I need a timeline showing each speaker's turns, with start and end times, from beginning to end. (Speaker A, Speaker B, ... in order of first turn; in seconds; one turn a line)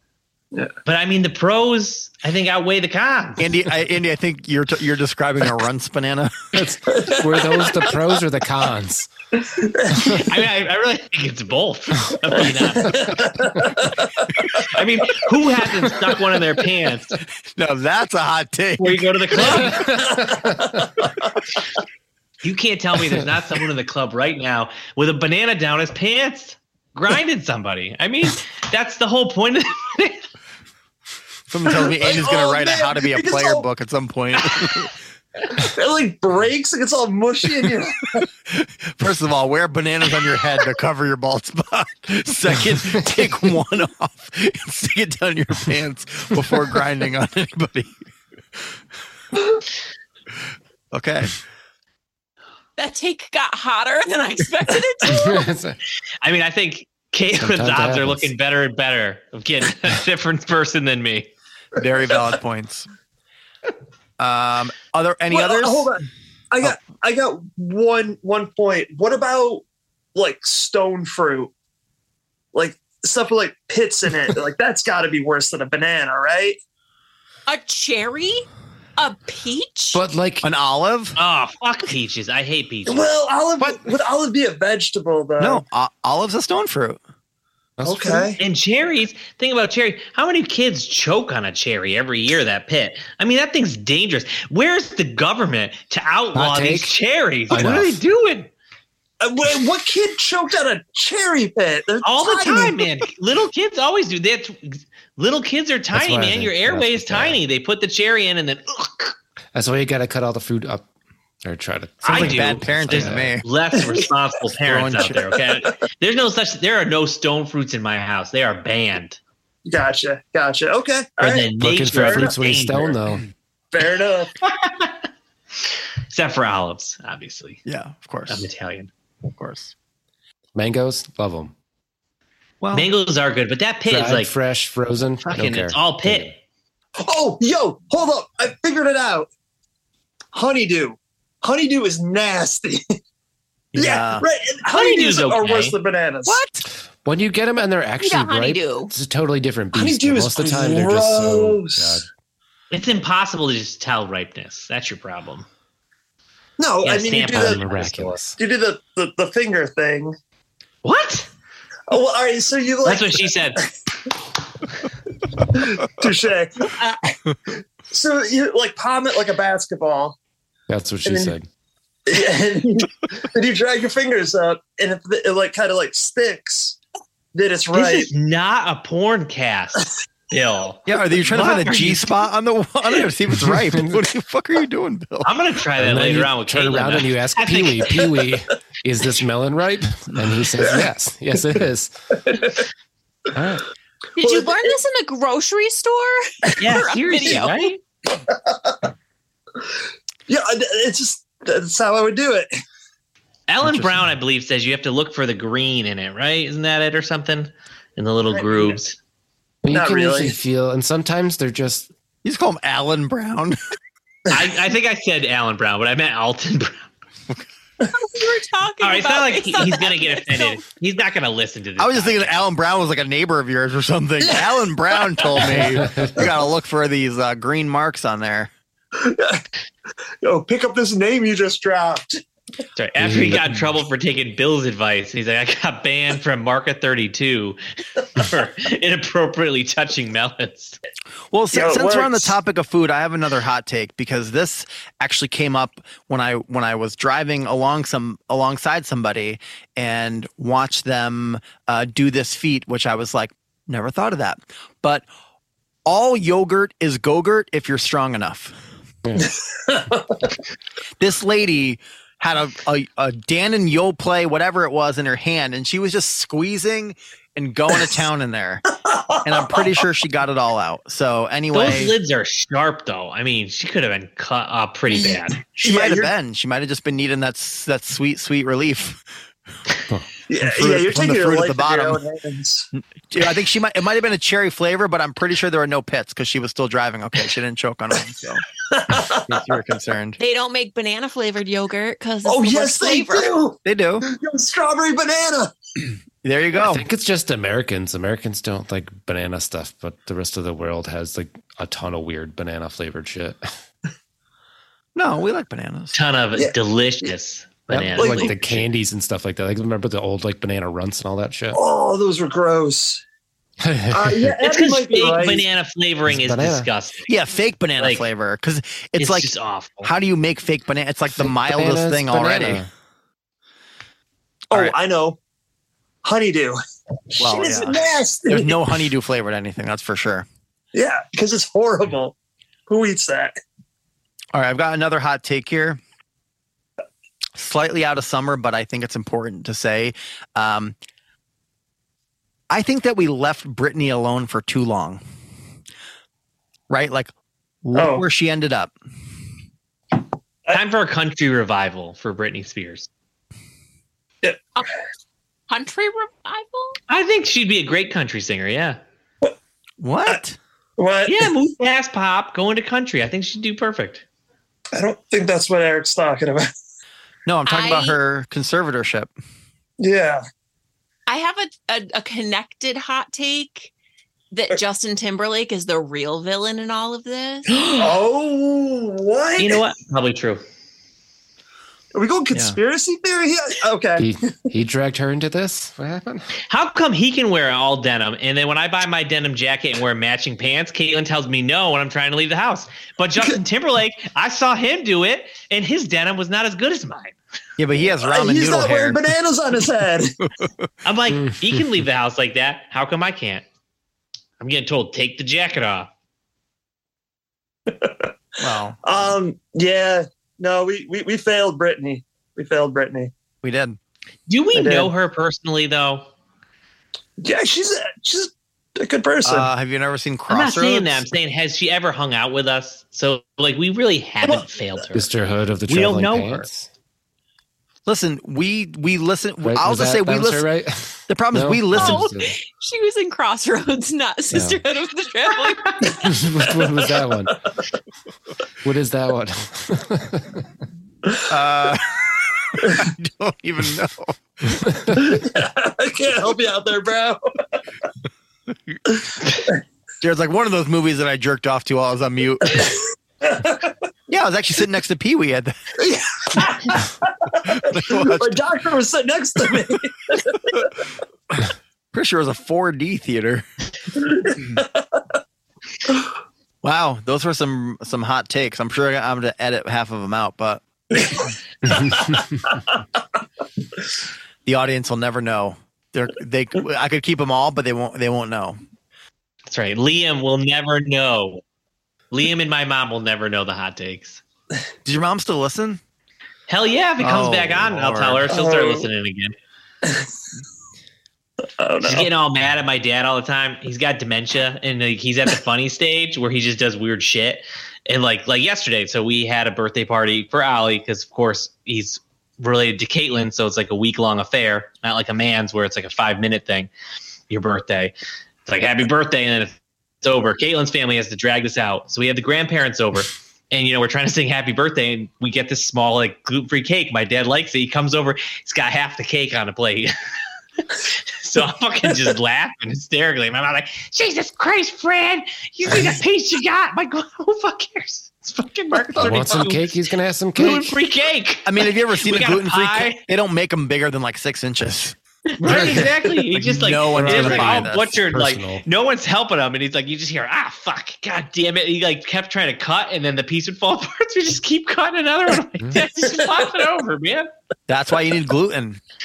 Speaker A: 0.9-3.5
Speaker B: 3.4-6.6
Speaker C: 6.5-9.1
Speaker D: 6.9-8.0
Speaker D: 9.4-10.3
Speaker C: 9.9-10.2
Speaker A: 10.2-13.2
Speaker D: 12.4-14.8
Speaker C: 12.9-13.1
Speaker A: 14.7-17.1
Speaker B: 17.6-19.7
Speaker A: 18.8-20.1
Speaker D: 19.5-21.3
Speaker C: 19.6-20.8
Speaker A: 22.4-30.2
Speaker B: 31.5-34.9
Speaker D: 31.6-33.7
Speaker D: 35.6-38.3
Speaker B: 38.5-48.0
Speaker B: 50.9-51.3
Speaker E: 52.8-55.5
Speaker C: 55.1-55.8
Speaker A: 56.2-61.3
Speaker C: 57.4-58.3
Speaker B: 61.8-62.9
Speaker B: 64.2-65.9
Speaker D: 65.3-69.6
Speaker D: 70.2-71.5
Speaker D: 72.5-76.6
Speaker E: 77.5-78.5
Speaker E: 79.0-80.0
Speaker C: 79.9-80.5
Speaker B: 80.4-81.2
Speaker A: 81.2-83.1
Speaker D: 82.9-85.6
Speaker B: 85.4-87.0
Speaker C: 87.8-88.3
Speaker D: 87.8-88.4
Speaker A: 88.4-98.5
Speaker C: 96.3-96.9
Speaker C: 97.5-98.0
Speaker D: 99.2-102.8
Speaker A: 102.0-109.2
Speaker C: 105.9-107.4
Speaker C: 109.5-110.9
Speaker C: 111.4-113.4
Speaker A: 112.0-119.2
Speaker B: 112.1-113.4
Speaker D: 113.8-114.0
Speaker B: 114.7-115.2
Speaker D: 115.0-115.4
Speaker D: 119.7-122.3
Speaker A: 121.2-123.0
Speaker C: 121.6-123.3
Speaker D: 123.7-124.3
Speaker A: 124.4-125.0
Speaker A: 126.1-127.6
Speaker B: 127.7-128.5
Speaker A: 128.3-128.9
Speaker B: 129.3-129.7
Speaker C: 130.6-131.5
Speaker B: 132.6-132.9
Speaker A: 132.7-134.3
Speaker C: 133.9-136.3
Speaker A: 135.2-136.3
Speaker D: 137.0-139.3
Speaker D: 140.3-142.8
Speaker B: 143.7-144.2
Speaker D: 143.7-146.4
Speaker A: 144.7-145.8
Speaker B: 146.3-146.6
Speaker C: 147.0-152.1
Speaker E: 148.0-148.9
Speaker D: 149.7-152.0
Speaker A: 152.7-155.5
Speaker D: 156.6-157.6
Speaker A: 156.8-158.2
Speaker C: 157.3-158.4
Speaker D: 158.4-160.2
Speaker A: 160.8-161.3
Speaker D: 161.9-163.7
Speaker A: 162.8-163.6
Speaker D: 165.5-170.2
Speaker C: 170.7-171.5
Speaker D: 171.1-171.3
Speaker D: 172.1-176.8
Speaker D: 177.3-178.1
Speaker A: 177.7-182.1
Speaker B: 180.9-185.3
Speaker C: 183.5-184.0
Speaker A: 185.2-188.1
Speaker C: 185.8-191.9
Speaker D: 192.2-192.6
Speaker C: 193.3-193.6
Speaker E: 194.2-197.7
Speaker D: 194.2-194.8
Speaker A: 196.6-197.8
Speaker D: 198.2-198.9
Speaker D: 200.3-202.5
Speaker A: 203.5-209.0
Speaker C: 203.6-204.0
Speaker D: 208.3-208.8
Speaker C: 209.6-211.9
Speaker D: 209.7-210.4
Speaker B: 212.2-213.6
Speaker A: 214.3-216.9
Speaker E: 217.9-220.6
Speaker A: 218.8-222.4
Speaker B: 221.8-228.5
Speaker D: 224.2-225.7
Speaker C: 225.5-226.2
Speaker D: 229.0-229.4
Speaker D: 230.2-232.2
Speaker A: 232.8-240.8
Speaker C: 233.0-233.5
Speaker B: 241.3-255.1
Speaker D: 241.5-242.3
Speaker B: 255.9-258.6
Speaker C: 259.1-259.3
Speaker D: 259.2-260.3
Speaker B: 261.0-268.6
Speaker D: 268.9-269.7
Speaker B: 269.2-271.9
Speaker A: 271.5-275.4
Speaker D: 274.9-276.1
Speaker B: 275.6-279.0
Speaker D: 280.3-282.7
Speaker B: 280.4-282.0
Speaker B: 282.7-288.4
Speaker D: 288.7-289.4
Speaker B: 289.0-290.2
Speaker E: 290.2-293.3
Speaker D: 292.2-295.5
Speaker B: 293.6-294.1
Speaker B: 296.2-296.9
Speaker C: 296.6-303.4
Speaker B: 304.9-305.9
Speaker A: 305.9-308.6
Speaker D: 306.4-307.1
Speaker B: 307.7-307.9
Speaker C: 307.9-311.6
Speaker D: 308.0-308.4
Speaker D: 311.5-313.0
Speaker C: 313.6-314.4
Speaker D: 313.9-315.4
Speaker A: 314.4-317.1
Speaker C: 316.1-316.7
Speaker B: 317.1-319.3
Speaker A: 317.8-318.1
Speaker A: 319.0-319.9
Speaker B: 319.8-322.6
Speaker C: 321.2-322.7
Speaker D: 324.5-325.2
Speaker D: 326.0-326.6
Speaker D: 327.1-328.6
Speaker B: 327.2-330.3
Speaker D: 330.7-332.2
Speaker D: 332.7-333.3
Speaker B: 334.3-335.8
Speaker B: 337.4-340.8
Speaker B: 342.5-345.0
Speaker B: 346.7-347.1
Speaker B: 347.6-348.7
Speaker D: 347.7-348.0
Speaker A: 350.5-352.9
Speaker E: 355.5-356.8
Speaker A: 356.9-358.8
Speaker B: 359.8-360.4
Speaker D: 360.8-361.3
Speaker A: 361.1-364.1
Speaker D: 364.7-366.5
Speaker B: 367.3-369.1
Speaker E: 367.5-368.0
Speaker D: 369.8-370.2
Speaker E: 371.1-373.7
Speaker E: 374.3-377.5
Speaker D: 377.5-379.6
Speaker A: 379.4-380.4
Speaker D: 381.9-384.1
Speaker B: 382.3-382.6
Speaker C: 384.0-386.3
Speaker A: 386.5-397.2
Speaker B: 397.6-399.0
Speaker D: 398.0-400.2
Speaker A: 400.9-403.4
Speaker A: 404.4-405.9
Speaker D: 407.7-408.1
Speaker B: 408.4-409.1
Speaker D: 408.8-413.1
Speaker B: 413.4-413.8
Speaker A: 414.3-416.1
Speaker D: 414.5-414.9
Speaker D: 417.2-419.5
Speaker B: 419.2-421.1
Speaker A: 420.3-425.1
Speaker D: 424.2-424.9
Speaker C: 424.9-426.7
Speaker A: 425.7-426.5
Speaker B: 427.9-430.5
Speaker C: 429.4-432.3
Speaker B: 431.1-432.0
Speaker E: 431.7-435.7
Speaker C: 434.3-434.6
Speaker D: 435.8-437.0
Speaker C: 436.0-437.4
Speaker C: 438.6-440.4
Speaker B: 441.3-444.6
Speaker C: 444.6-445.0
Speaker D: 444.9-447.2
Speaker D: 448.9-449.6
Speaker B: 450.0-452.7
Speaker D: 452.5-453.8
Speaker B: 454.1-455.5
Speaker D: 455.8-460.7
Speaker B: 457.5-458.4
Speaker B: 461.9-463.4
Speaker D: 464.0-465.2
Speaker B: 466.6-471.1
Speaker D: 470.9-472.8
Speaker B: 474.5-478.6
Speaker A: 479.5-481.4
Speaker A: 482.1-484.2
Speaker B: 484.9-485.8
Speaker A: 486.5-489.4
Speaker B: 487.0-488.3
Speaker D: 488.3-488.9
Speaker D: 489.8-490.1
Speaker D: 491.6-492.1
Speaker A: 491.8-506.7
Speaker A: 507.3-507.9
Speaker A: 508.5-519.9
Speaker A: 520.6-529.8
Speaker C: 529.0-530.8
Speaker A: 530.4-533.0
Speaker B: 531.5-535.0
Speaker A: 535.4-547.3
Speaker C: 535.4-535.9
Speaker B: 535.5-535.9
Speaker B: 536.4-537.9
Speaker C: 536.9-538.6
Speaker B: 547.7-548.8